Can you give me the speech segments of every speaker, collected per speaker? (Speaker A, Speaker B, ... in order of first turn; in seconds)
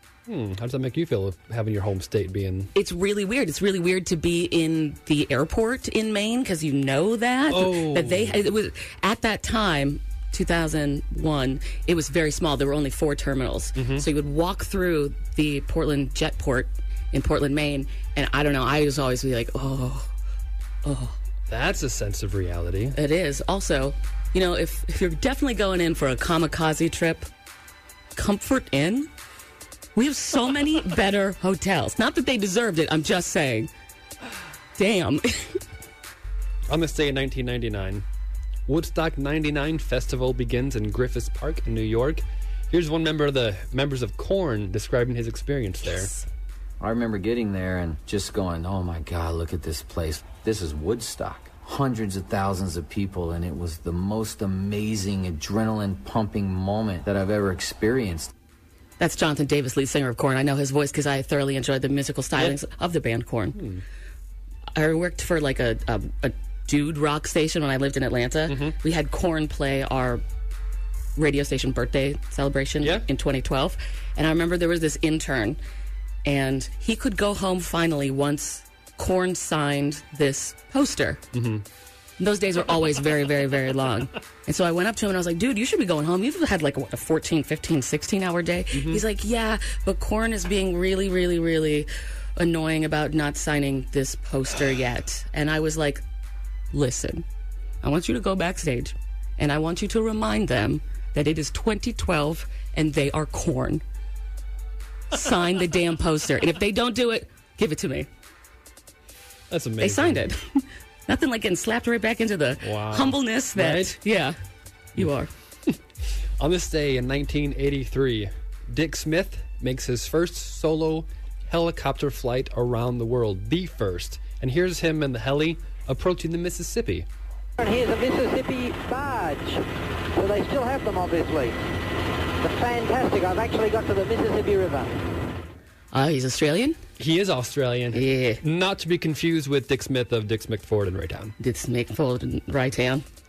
Speaker A: 0.3-2.7, 7.5-8.4, 13.8-14.1, 21.5-23.0, 36.7-38.0, 38.7-46.1, 63.5-63.8, 68.5-68.8, 81.3-81.6, 88.7-89.0, 109.5-110.2, 112.6-114.0, 116.4-127.1, 137.0-141.4
Speaker B: 2.8-20.1, 20.8-21.2, 22.9-27.3, 28.1-29.1, 29.9-33.7, 34.8-35.6, 59.0-63.6, 64.8-70.2, 71.2-75.6, 76.2-81.2, 82.2-96.0, 96.7-97.2, 97.8-103.8, 105.1-108.1, 109.8-114.4, 115.0-115.3, 135.9-136.8, 137.9-138.4, 141.4-143.0
Speaker C: 46.8-58.3
Speaker D: 127.6-129.6, 130.2-131.6, 132.4-135.0